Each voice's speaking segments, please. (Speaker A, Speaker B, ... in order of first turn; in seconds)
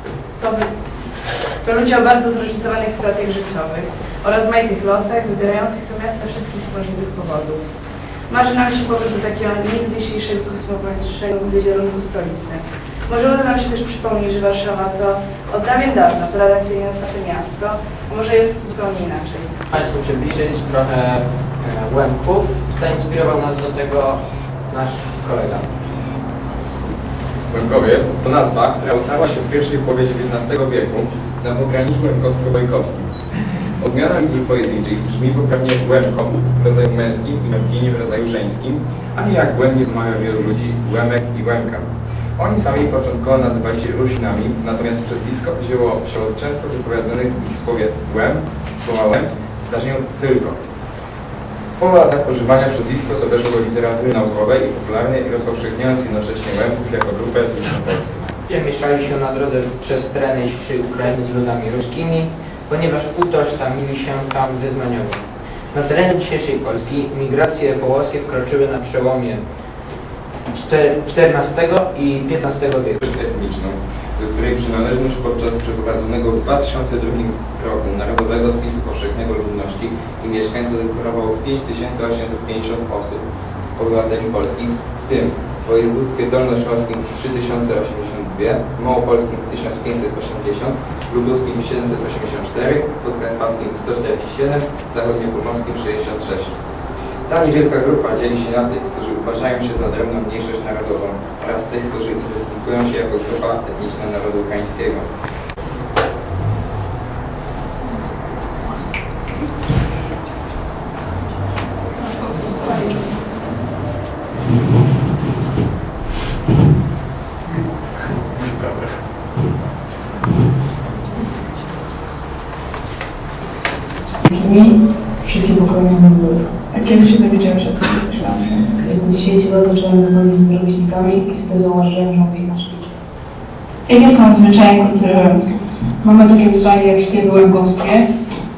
Speaker A: 0.4-0.7, 1.6-7.6, 8.3-19.6
Speaker B: 19.7-25.7, 58.5-65.2, 65.7-69.4, 70.5-73.0
Speaker C: 27.5-33.1, 33.8-50.6, 51.8-58.4, 73.0-83.2, 83.8-96.5, 97.3-105.1
Speaker D: 124.3-126.5, 128.7-132.9, 136.0-138.1
Speaker E: 126.7-128.7, 133.9-135.4